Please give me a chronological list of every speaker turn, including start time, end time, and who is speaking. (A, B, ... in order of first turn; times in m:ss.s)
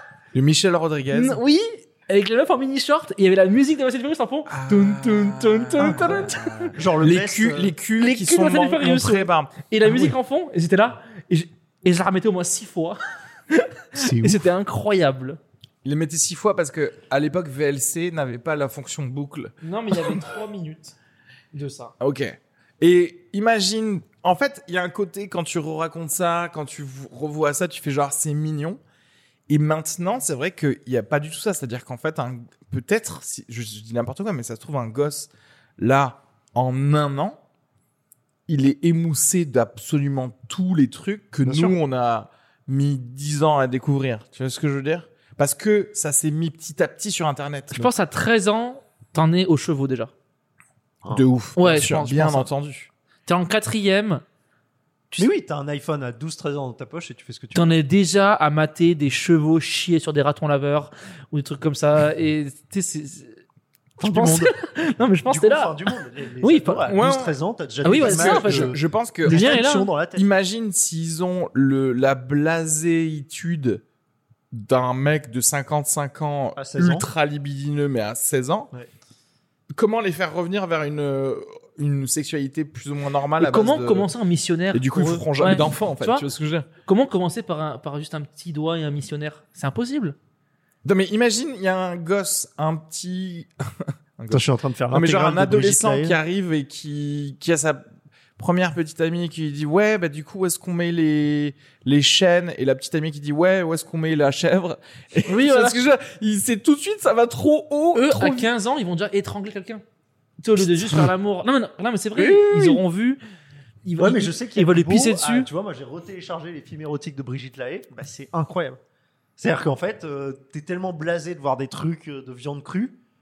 0:00.3-0:01.4 A
0:01.1-0:06.8 B
0:04.5-0:10.1 A
0:06.8-0:07.7 C
0:08.0-0:13.0 B
0:13.5-0:15.4 B
0:14.0-0:14.4 C
0:15.8-0:20.2 A
0:19.6-0:21.0 B
0:21.5-0:21.9 B
0:22.0-0:28.8 A
0:29.5-0:37.4 A
0:38.5-0:47.9 A
0:41.4-0:41.8 C
0:47.7-0:50.1 B
0:51.1-0:52.9 A
0:51.6-0:52.5 B
0:53.3-0:54.2 B
0:55.2-0:57.8 C
0:57.5-1:03.4 B
1:04.0-1:04.5 C
1:04.0-1:07.0 B
1:05.3-1:10.3 C
1:06.9-1:07.3 A
1:07.8-1:09.9 B
1:07.9-1:09.6 A
1:10.2-1:13.8 A
1:14.5-1:18.7 A
1:16.6-1:17.1 C
1:19.7-1:24.1 A
1:23.4-1:26.2 B
1:24.7-1:26.7 A
1:26.8-1:30.2 B
1:30.8-1:33.5 A
1:34.2-1:37.8 A
1:34.3-1:36.2 C
1:38.4-1:48.5 A
1:45.3-1:45.8 B
1:48.0-1:49.8 B
1:50.4-1:53.2 B
1:52.2-1:52.8 A
1:53.8-1:55.5 B
1:54.0-1:58.8 C
1:59.4-2:03.0 C